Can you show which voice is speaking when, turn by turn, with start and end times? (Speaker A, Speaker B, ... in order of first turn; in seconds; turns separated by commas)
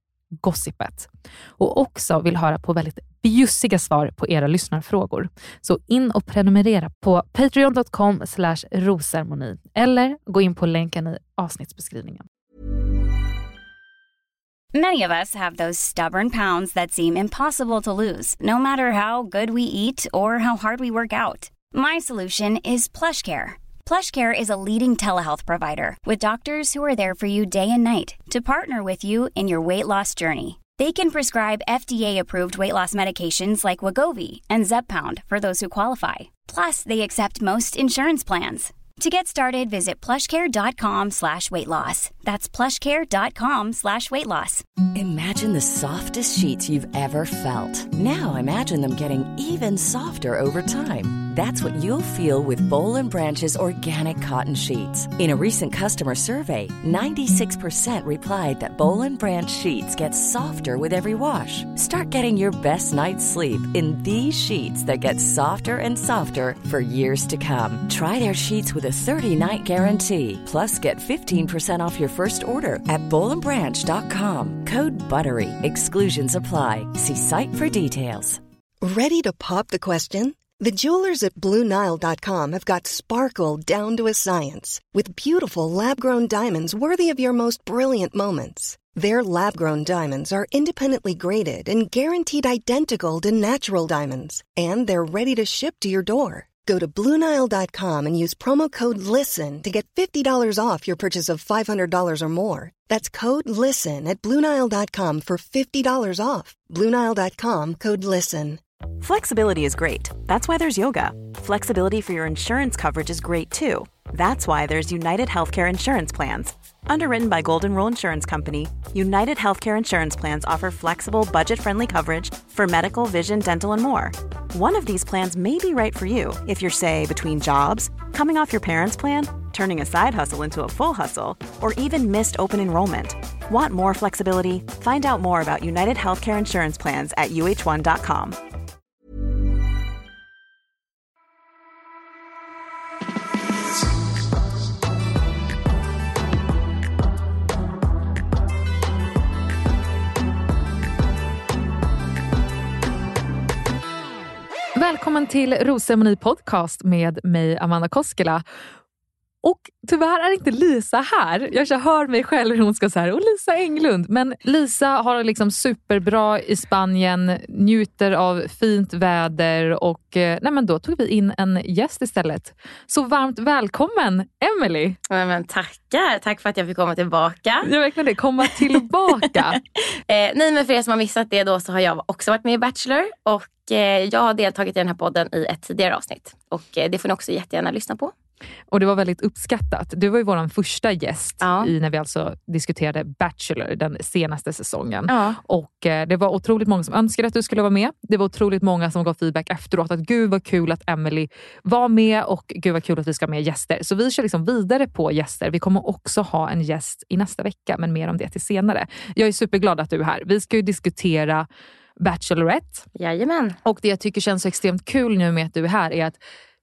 Speaker A: 0.4-12.2, Speaker B: 14.7-44.6, Speaker C: 44.9-78.4, Speaker D: 78.8-108.6, Speaker E: 109.0-138.4, Speaker A: 154.8-158.4, Speaker A: 159.4-175.0, Speaker F: 175.1-177.7, Speaker A: 177.6-179.6, Speaker F: 180.1-188.1, Speaker A: 188.7-211.5, Speaker F: 191.4-191.7, Speaker F: 195.1-195.4, Speaker A: 212.0-212.8, Speaker F: 212.9-213.6, Speaker A: 213.6-216.2